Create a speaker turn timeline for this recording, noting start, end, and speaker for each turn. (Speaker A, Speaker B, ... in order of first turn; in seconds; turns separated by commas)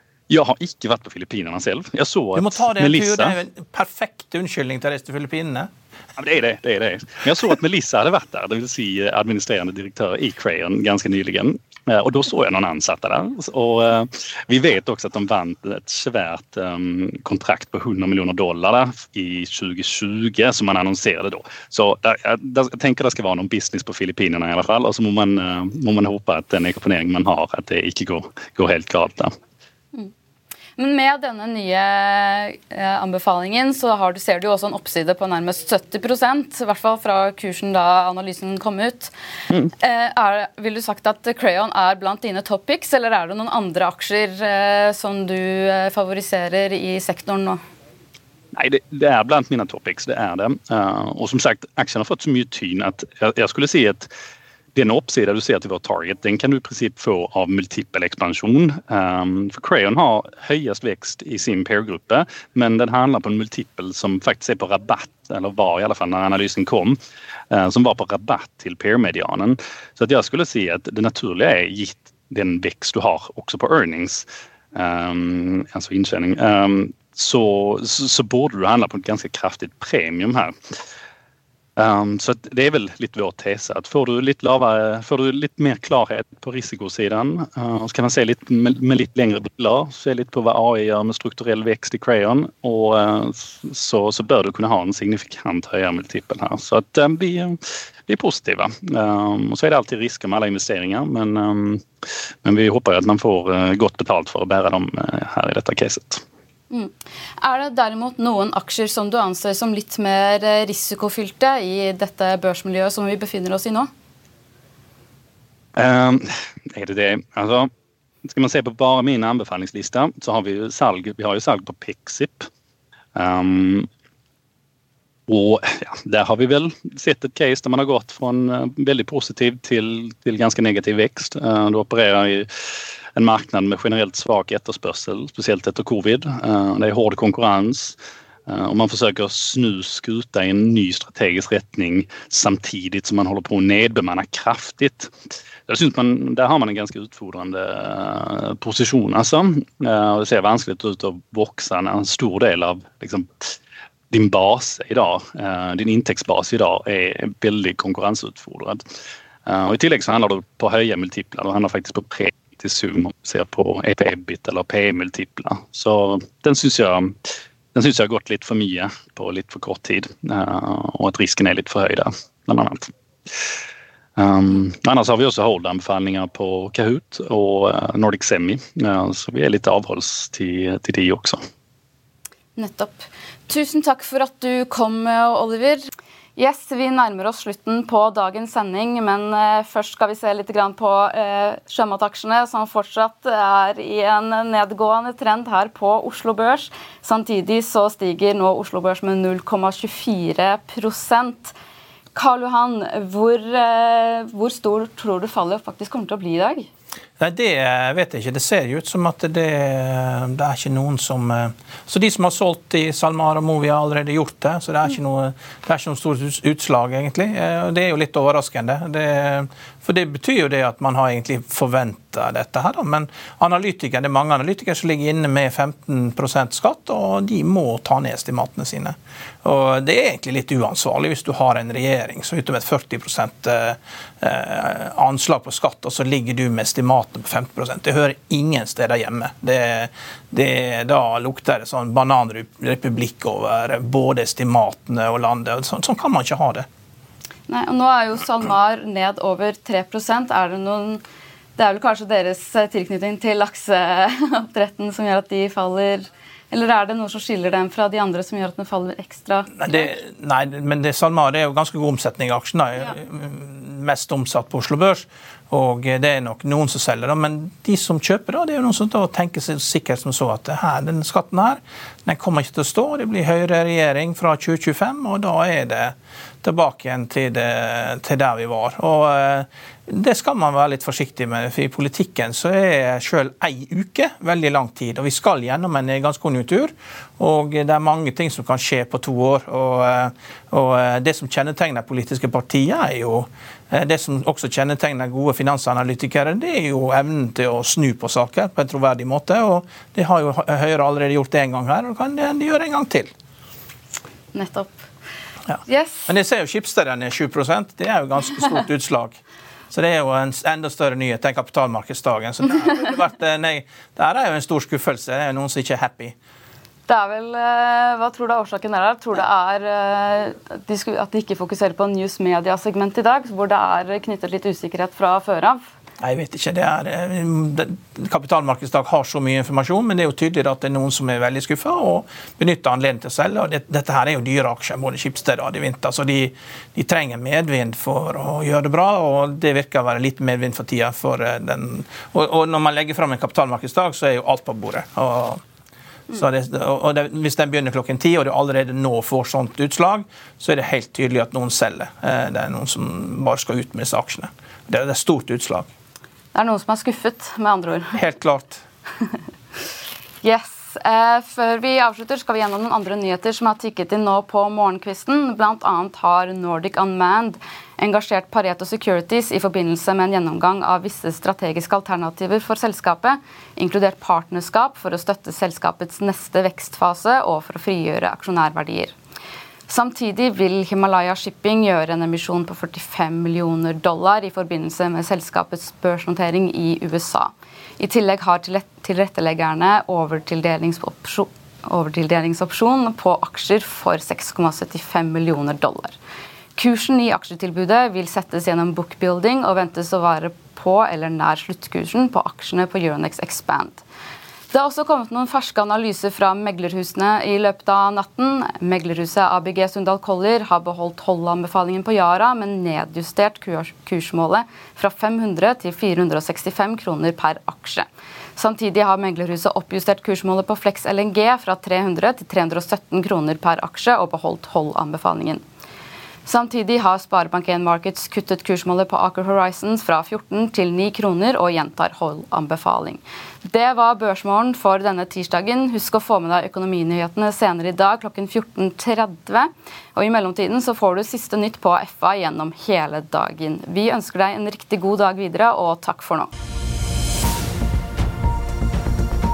Speaker A: 0.3-3.3, Speaker B: 2.3-5.7, Speaker A: 6.2-29.3, Speaker C: 30.8-39.1, Speaker C: 39.8-47.6, Speaker A: 48.5-54.1, Speaker A: 54.7-67.0, Speaker A: 67.5-80.7, Speaker A: 81.8-101.8, Speaker A: 102.4-106.2, Speaker C: 106.7-113.9, Speaker A: 115.8-117.7, Speaker A: 118.2-122.5, Speaker A: 123.1-123.9, Speaker A: 125.3-145.1, Speaker A: 145.7-153.5, Speaker A: 154.1-158.8, Speaker A: 159.4-167.2, Speaker A: 167.7-172.9, Speaker A: 174.2-181.4, Speaker C: 182.6-201.5, Speaker C: 202.1-206.7, Speaker B: 207.2-246.7, Speaker C: 247.5-251.0, Speaker C: 251.6-259.9, Speaker B: 259.5-303.1, Speaker C: 304.3-304.8, Speaker B: 305.5-309.2, Speaker C: 305.6-306.1, Speaker B: 309.7-316.1, Speaker C: 316.9-325.6, Speaker B: 326.0-345.4, Speaker B: 346.1-355.7, Speaker C: 356.3-358.0, Speaker B: 357.9-358.6, Speaker C: 360.2-378.9, Speaker C: 379.7-395.9, Speaker C: 396.6-403.8, Speaker C: 404.5-425.4, Speaker C: 426.2-446.3